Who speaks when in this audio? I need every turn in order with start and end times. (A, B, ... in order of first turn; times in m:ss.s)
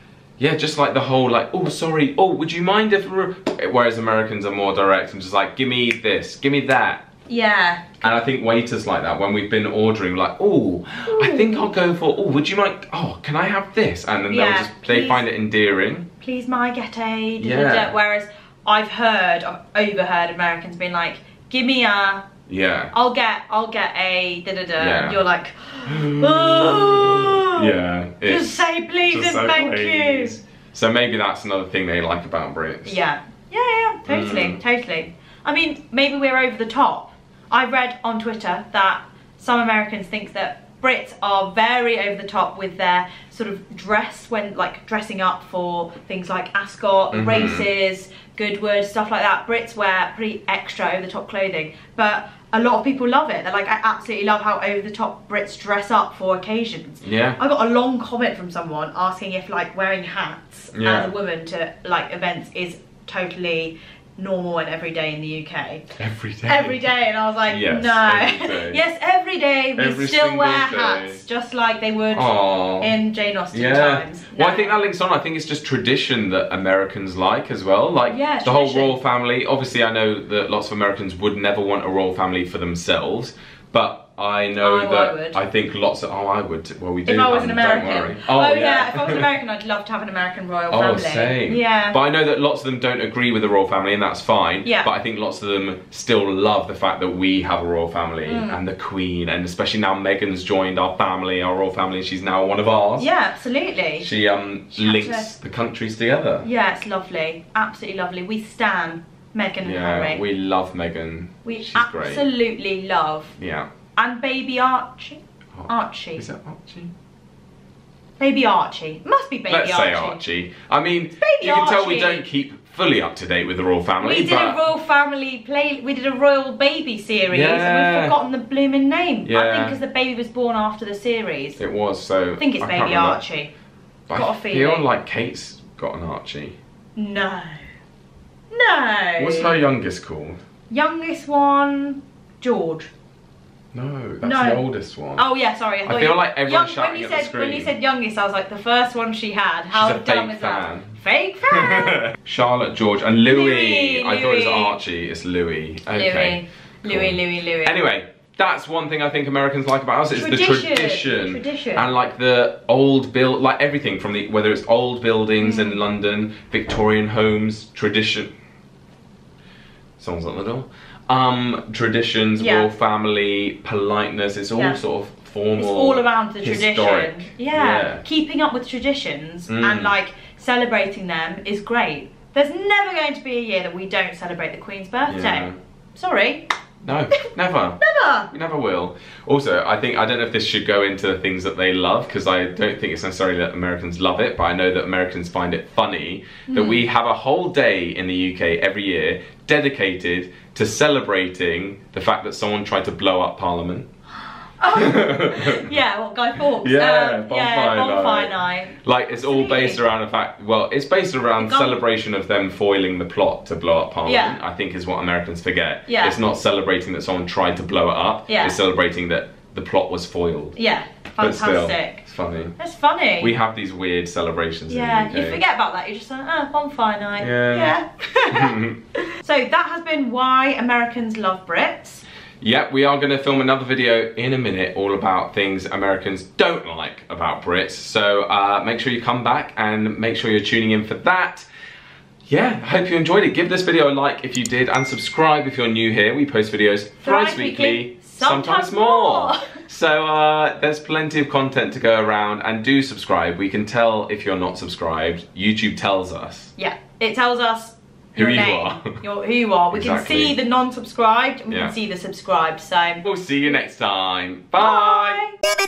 0:00.4-0:07.1 A
0:07.3-0:08.0 B
0:08.0-0:16.1 A
0:11.1-0:11.7 B
0:14.3-0:15.2 B
0:16.2-0:22.3 B
0:17.4-0:17.9 A
0:22.5-0:22.9 A
0:22.9-0:27.7 B
0:24.8-0:25.2 A
0:25.9-0:33.0 A
0:28.2-0:30.4 B
0:32.8-1:05.9 B
0:34.1-0:34.6 A
0:47.1-0:47.7 A
0:57.0-0:57.4 A
1:00.7-1:01.1 A
1:06.0-1:06.9 A
1:06.4-1:14.8 B
1:07.5-1:08.8 A
1:09.8-1:11.2 A
1:12.1-1:12.9 A
1:13.5-1:29.3 A
1:18.1-1:19.0 B
1:24.6-1:25.4 B
1:27.1-1:32.0 B
1:30.7-1:43.1 A
1:34.6-1:34.9 B
1:38.2-1:38.6 B
1:43.0-1:44.1 B
1:44.0-1:46.5 A
1:44.7-1:45.3 B
1:46.4-1:50.2 B
1:49.6-1:52.2 A
1:51.4-1:53.4 B
1:53.4-1:53.7 A
1:54.0-1:56.2 B
1:55.6-1:56.9 A
1:58.2-2:00.2 B
1:59.5-2:04.6 A
2:01.2-2:02.2 B
2:04.0-2:11.6 B
2:07.3-2:08.2 A
2:09.2-2:09.8 A
2:11.6-2:13.2 A
2:12.4-2:13.5 B
2:14.1-2:16.6 A
2:14.1-2:14.9 B
2:17.0-2:17.6 B
2:18.5-2:19.6 B
2:19.2-2:20.4 A
2:20.7-2:22.9 B
2:23.7-2:25.2 A
2:24.2-2:24.6 B
2:25.2-2:32.0 B
2:25.9-2:27.7 A
2:29.7-2:48.3 A
2:33.2-2:34.8 B
2:35.9-2:37.8 B
2:40.1-2:41.9 B
2:45.4-2:45.8 B
2:50.0-2:58.0 A
2:52.4-2:52.7 B
2:54.5-2:54.8 B
2:55.6-3:06.5 B
2:59.5-2:59.9 A
3:05.1-3:05.6 A
3:06.8-3:07.8 A
3:07.8-3:08.3 B
3:08.3-3:23.9 A
3:16.5-3:16.8 B
3:24.6-3:29.8 B
3:24.8-3:25.8 A
3:26.6-3:40.6 A
3:31.4-3:31.8 B
3:34.0-3:34.4 B
3:35.9-3:36.2 B
3:38.3-3:38.6 B
3:40.6-3:42.0 B
3:41.2-3:42.6 A
3:42.6-3:43.4 B
3:43.2-3:45.4 A
3:44.7-3:52.0 B
3:47.2-3:47.8 A
3:48.3-3:48.8 A
3:52.4-4:01.5 A
4:02.3-4:16.5 A
4:07.0-4:09.5 B
4:16.6-4:23.7 B
4:18.2-4:19.0 A
4:19.7-4:20.4 A
4:21.5-4:21.7 A
4:23.0-4:25.2 A
4:24.6-4:25.4 B